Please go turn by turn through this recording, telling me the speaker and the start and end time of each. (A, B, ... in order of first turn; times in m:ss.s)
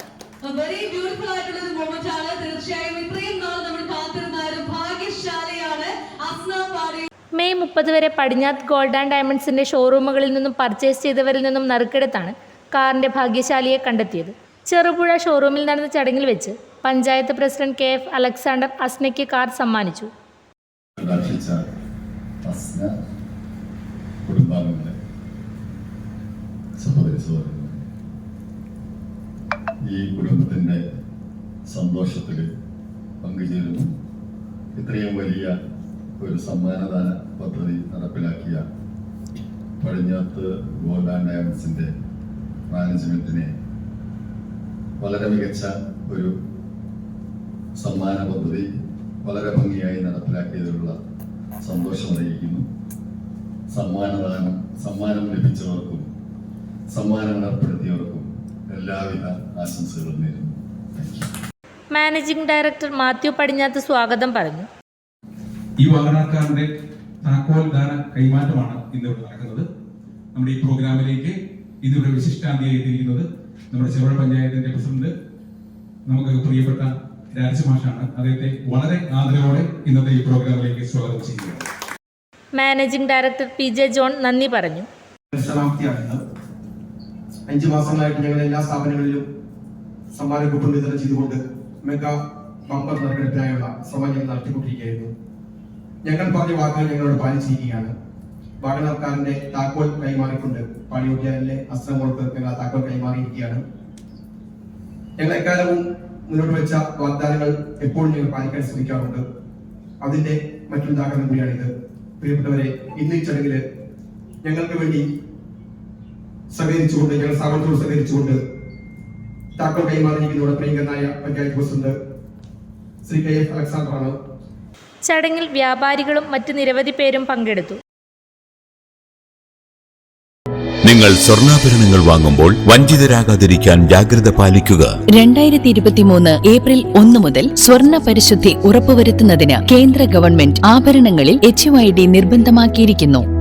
0:00.4-0:07.1 A
0:07.4-0:20.1 B
0:21.0-0:21.6 C
0:22.4-0:22.9 C
0:24.2-0:24.9 C
0:26.8-0:27.8 C
0:29.8-0:30.8 C
0:31.7-0:32.5 C
0:33.2-0:33.9 C
0:34.7-0:35.6 C
0:36.2-0:38.6 C
0:39.8-0:41.9 C
0:42.7-0:43.5 C
0:45.0-0:46.3 C
0:47.8-0:48.7 C
0:49.2-0:51.0 C
0:51.6-0:52.6 C
0:53.7-0:56.1 C
0:56.9-1:01.3 C
1:01.9-1:04.7 B
1:05.8-1:06.7 D
1:07.2-1:09.6 D
1:10.3-1:15.1 D
1:16.1-1:21.6 D
1:22.5-1:24.9 B
1:25.3-1:26.2 E
1:27.5-1:29.2 E
1:30.1-1:32.2 E
1:32.7-1:35.1 E
1:36.0-1:37.9 E
1:38.6-1:43.6 E
1:45.2-1:49.2 E
1:50.0-1:53.6 E
1:54.4-1:55.0 E
1:56.5-1:58.4 E
1:59.6-2:01.9 E
2:03.0-2:04.2 E
2:05.0-2:07.8 B
2:10.8-2:15.0 F
2:15.1-2:23.2 G